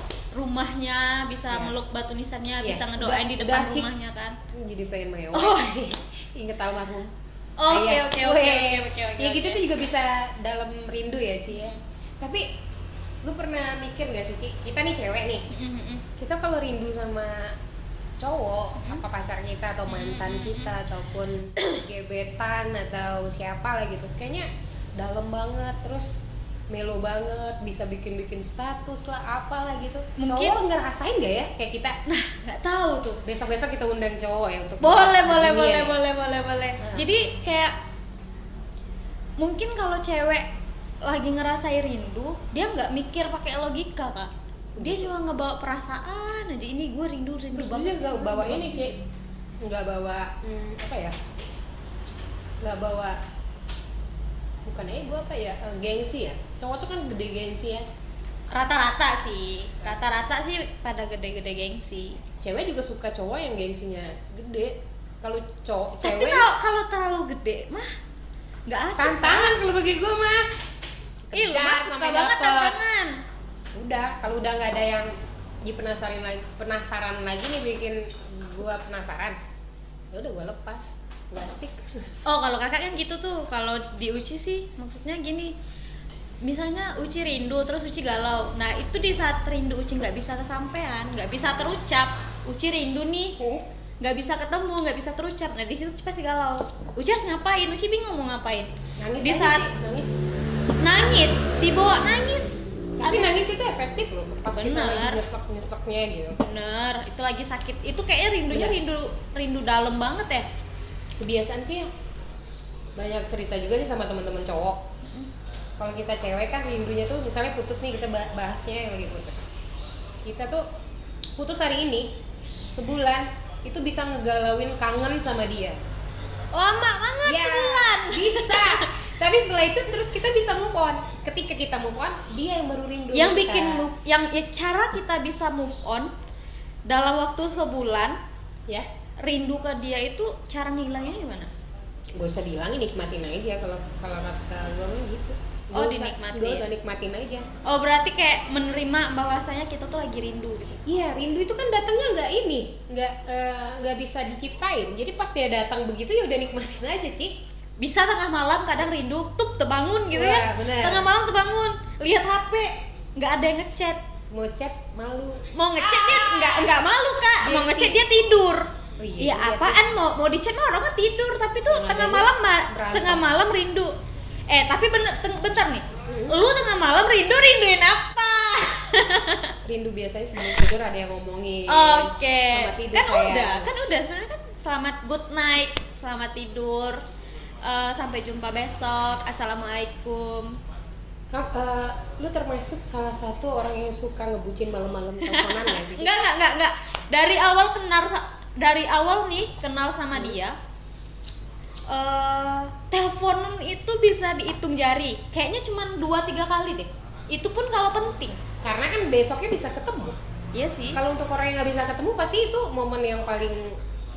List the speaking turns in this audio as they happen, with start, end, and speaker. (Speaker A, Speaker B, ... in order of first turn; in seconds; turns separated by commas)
Speaker A: 0.3-4.4, Speaker B: 2.6-3.9, Speaker B: 4.5-7.1, Speaker A: 5.3-5.7, Speaker A: 7.6-9.6, Speaker B: 7.7-12.6, Speaker A: 11.5-11.8, Speaker B: 13.2-15.4, Speaker A: 15.5-16.1, Speaker B: 16.2-17.6, Speaker B: 18.2-32.0, Speaker A: 18.8-19.0, Speaker A: 19.9-20.7, Speaker A: 30.2-30.6, Speaker A: 32.1-33.2, Speaker B: 33.2-36.0, Speaker A: 34.8-37.8, Speaker B: 36.8-37.1, Speaker A: 39.4-40.5, Speaker A: 41.0-49.0, Speaker B: 44.8-45.1, Speaker B: 47.5-49.0, Speaker B: 49.6-51.2, Speaker B: 52.6-53.2, Speaker B: 54.6-57.9, Speaker A: 58.5-62.2, Speaker B: 62.4-66.5, Speaker A: 66.0-68.0, Speaker A: 68.7-69.6, Speaker B: 69.0-70.5, Speaker B: 71.3-72.8, Speaker A: 71.3-73.2, Speaker B: 73.8-75.1, Speaker B: 75.6-79.4, Speaker B: 80.1-82.1, Speaker A: 82.2-85.5, Speaker A: 86.4-93.4, Speaker B: 93.4-93.7, Speaker A: 94.0-99.7, Speaker B: 99.0-100.2, Speaker A: 100.8-103.4, Speaker B: 103.0-106.4, Speaker A: 104.5-105.2, Speaker A: 106.4-110.5, Speaker B: 108.5-108.8, Speaker B: 111.2-111.9, Speaker B: 113.0-114.8, Speaker A: 115.0-115.3, Speaker B: 115.8-119.5, Speaker B: 120.2-120.7, Speaker B: 121.4-122.2, Speaker B: 122.7-125.8, Speaker A: 126.5-128.9, Speaker B: 127.2-133.9, Speaker A: 133.1-136.1, Speaker A: 136.9-138.2, Speaker A: 139.2-141.5, Speaker B: 142.2-147.5, Speaker A: 145.7-146.6, Speaker A: 147.7-150.8, Speaker B: 150.9-157.4, Speaker A: 157.8-164.0, Speaker B: 160.1-161.1, Speaker B: 164.3-166.7, Speaker A: 165.5-173.9, Speaker B: 167.4-168.0, Speaker B: 169.0-169.8, Speaker B: 171.7-173.3, Speaker A: 174.5-179.6, Speaker B: 176.1-176.4, Speaker B: 179.7-183.7, Speaker A: 181.7-187.0, Speaker A: 187.6-190.6, Speaker B: 191.3-196.3, Speaker A: 195.2-200.6, Speaker A: 201.9-208.4, Speaker B: 208.6-210.2, Speaker A: 210.5-211.0, Speaker B: 210.9-213.8